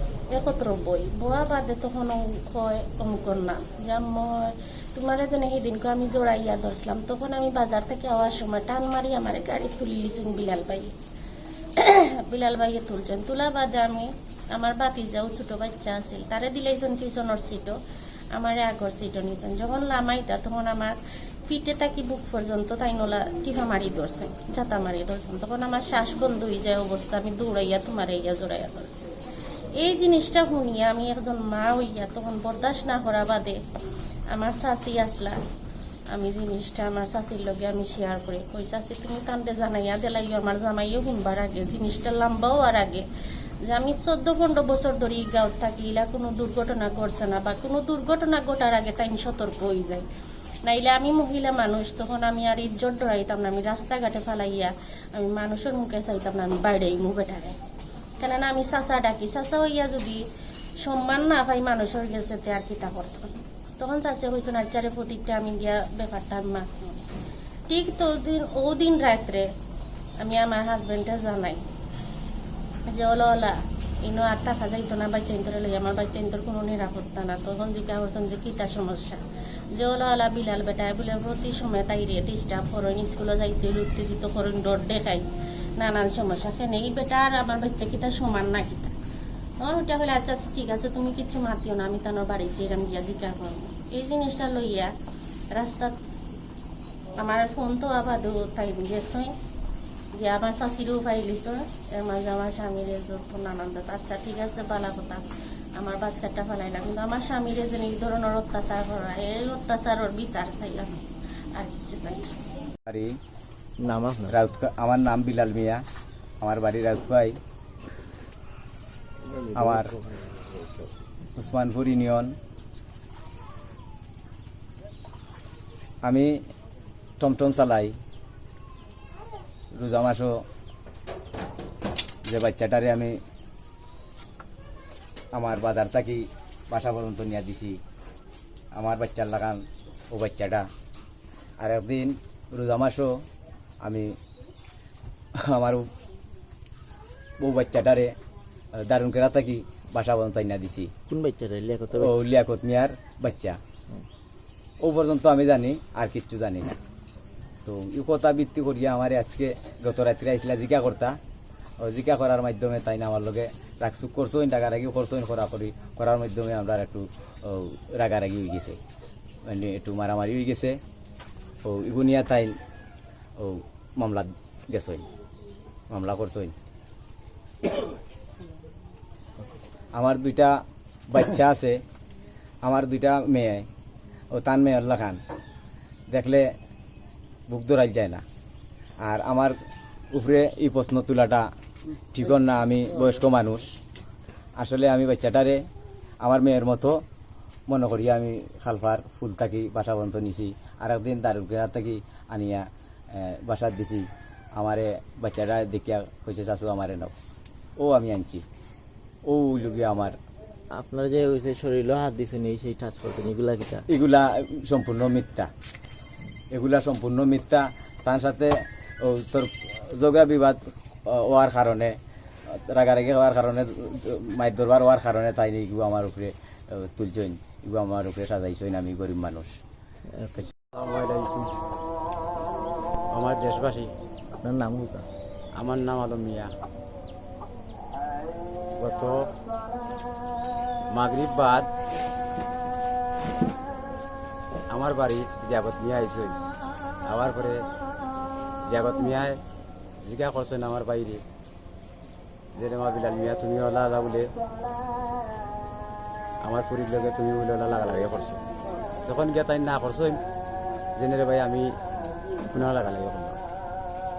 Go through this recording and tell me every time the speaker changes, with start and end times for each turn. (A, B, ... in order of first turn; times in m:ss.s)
0:00.3-0:10.9 A
0:11.8-0:17.7 A
0:18.3-0:21.0 A
0:21.5-0:29.1 A
0:29.8-0:33.6 A
0:34.3-0:35.3 A
0:36.1-0:43.0 A
0:43.7-0:50.0 A
0:50.7-0:57.5 A
0:58.2-1:00.2 A
1:00.8-1:07.0 A
1:07.7-1:09.4 A
1:10.2-1:11.6 A
1:12.9-1:13.5 A
1:14.0-1:19.2 A
1:19.8-1:25.2 A
1:25.8-1:28.9 A
1:29.6-1:34.9 A
1:35.5-1:35.9 A
1:37.2-1:39.3 A
1:40.2-1:45.2 A
1:45.8-1:51.0 A
1:51.6-1:52.2 A
1:52.8-1:53.2 B
1:53.8-1:54.3 C
1:54.3-1:55.8 B
1:56.4-1:57.4 B
1:59.5-1:59.9 B
2:01.4-2:02.4 B
2:06.0-2:06.4 B
2:07.2-2:08.0 B
2:09.8-2:10.4 B
2:12.3-2:13.2 B
2:15.3-2:17.8 B
2:18.8-2:20.6 B
2:21.6-2:23.2 B
2:23.8-2:24.2 B
2:25.5-2:25.9 B
2:27.4-2:28.1 B
2:28.8-2:30.9 B
2:31.1-2:32.1 C
2:31.9-2:33.6 B
2:34.8-2:36.7 B
2:37.6-2:41.2 B
2:41.8-2:48.8 B
2:49.4-2:50.8 B
2:51.6-2:52.5 B
2:53.4-2:55.0 B
2:55.9-2:56.5 B
2:59.9-3:00.6 B
3:01.1-3:01.8 B
3:02.6-3:03.6 B
3:04.3-3:05.2 B
3:06.1-3:06.5 B
3:07.5-3:08.2 B
3:09.0-3:09.5 B
3:10.1-3:11.5 B
3:12.1-3:13.7 B
3:14.6-3:15.6 B
3:16.2-3:17.0 B
3:17.7-3:27.1 B
3:27.8-3:28.4 B
3:29.2-3:30.2 B
3:30.7-3:33.8 C
3:33.9-3:35.5 B
3:36.5-3:42.0 B
3:42.7-3:49.6 B
3:50.2-3:50.5 C
3:50.7-3:51.6 D
3:53.1-3:53.9 D
3:54.4-3:55.0 C
3:55.6-3:56.5 D
3:58.8-3:59.3 D
4:00.9-4:01.7 D
4:04.7-4:06.4 D
4:07.0-4:07.6 D
4:08.7-4:09.4 D
4:10.0-4:11.2 D
4:12.5-4:14.2 D
4:16.4-4:18.4 D
4:19.0-4:20.2 D
4:21.0-4:21.7 D
4:22.5-4:23.4 D